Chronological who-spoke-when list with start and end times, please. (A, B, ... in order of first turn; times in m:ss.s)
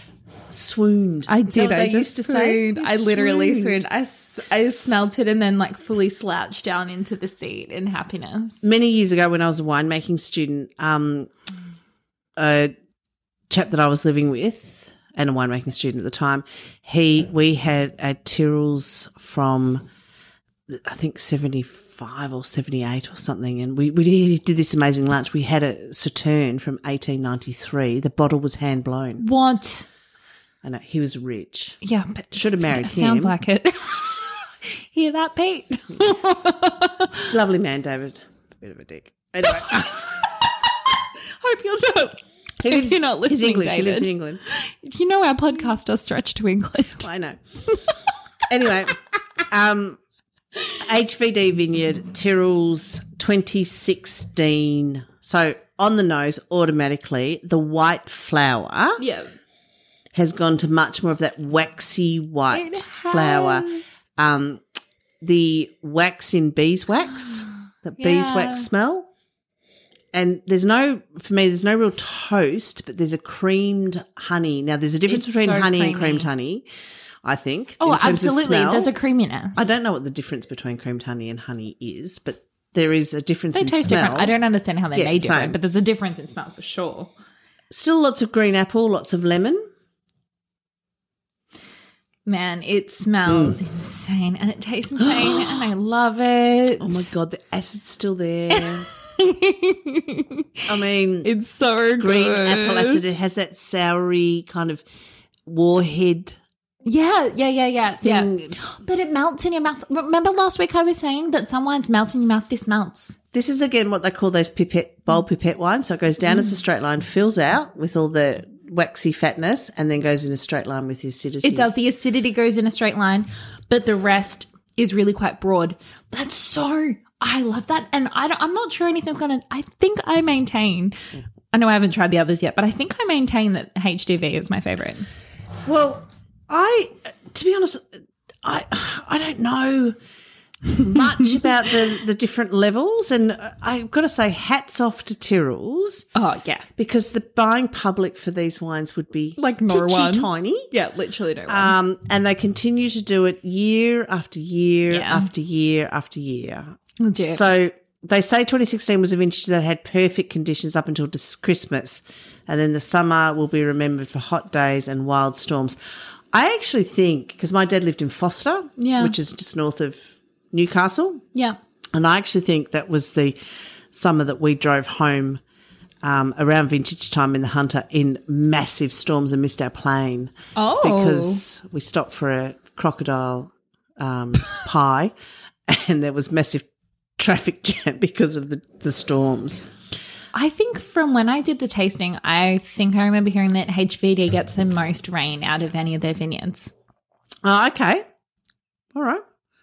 0:00.5-0:03.8 A
0:01.3-0:08.6 B
0:08.6-0:11.3 A
0:12.4-0:12.7 A
0:13.5-0:19.8 A
0:20.7-0:29.2 A
0:29.2-0:29.9 B
0:30.6-0:31.8 A
0:31.8-0:37.3 B
0:32.3-0:33.4 A
0:37.3-0:40.3 A
0:39.5-0:47.1 B
0:42.6-0:44.4 A
0:47.0-0:47.4 A
0:47.7-0:47.9 B
0:48.5-0:50.0 A
0:50.8-0:59.0 A
0:59.0-0:59.3 B
1:00.1-1:04.6 A
1:02.5-1:03.8 B
1:05.2-1:09.1 A
1:08.0-1:08.7 B
1:10.1-1:16.6 A
1:15.1-1:16.3 B
1:17.2-1:18.9 A
1:17.8-1:19.7 B
1:19.6-1:24.3 A
1:23.5-1:27.1 B
1:24.9-1:25.6 A
1:27.7-1:29.6 A
1:32.2-1:37.1 B
1:33.3-1:33.6 A
1:35.0-1:35.6 A
1:36.8-1:38.9 A
1:38.5-1:40.6 B
1:40.7-1:41.3 A
1:41.2-1:43.0 B
1:42.0-1:44.8 A
1:45.5-1:46.4 A
1:46.8-1:53.2 B
1:48.0-1:48.5 A
1:53.3-2:01.7 A
1:56.3-1:56.5 B
2:01.4-2:15.0 B
2:15.7-2:17.9 A
2:18.4-2:20.0 A
2:20.8-2:26.0 A
2:26.2-2:26.7 B
2:26.8-2:30.7 A
2:29.4-2:31.7 B
2:31.5-2:45.8 A
2:34.9-2:35.3 B
2:37.0-2:37.4 B
2:46.3-2:51.2 A
2:48.8-2:49.2 B
2:51.9-2:53.4 A
2:53.9-2:55.4 A
2:56.0-3:05.1 A
3:00.5-3:01.4 B
3:05.7-3:06.7 A
3:07.2-3:09.6 A
3:10.3-3:16.7 B
3:17.4-3:18.0 A
3:18.9-3:19.2 A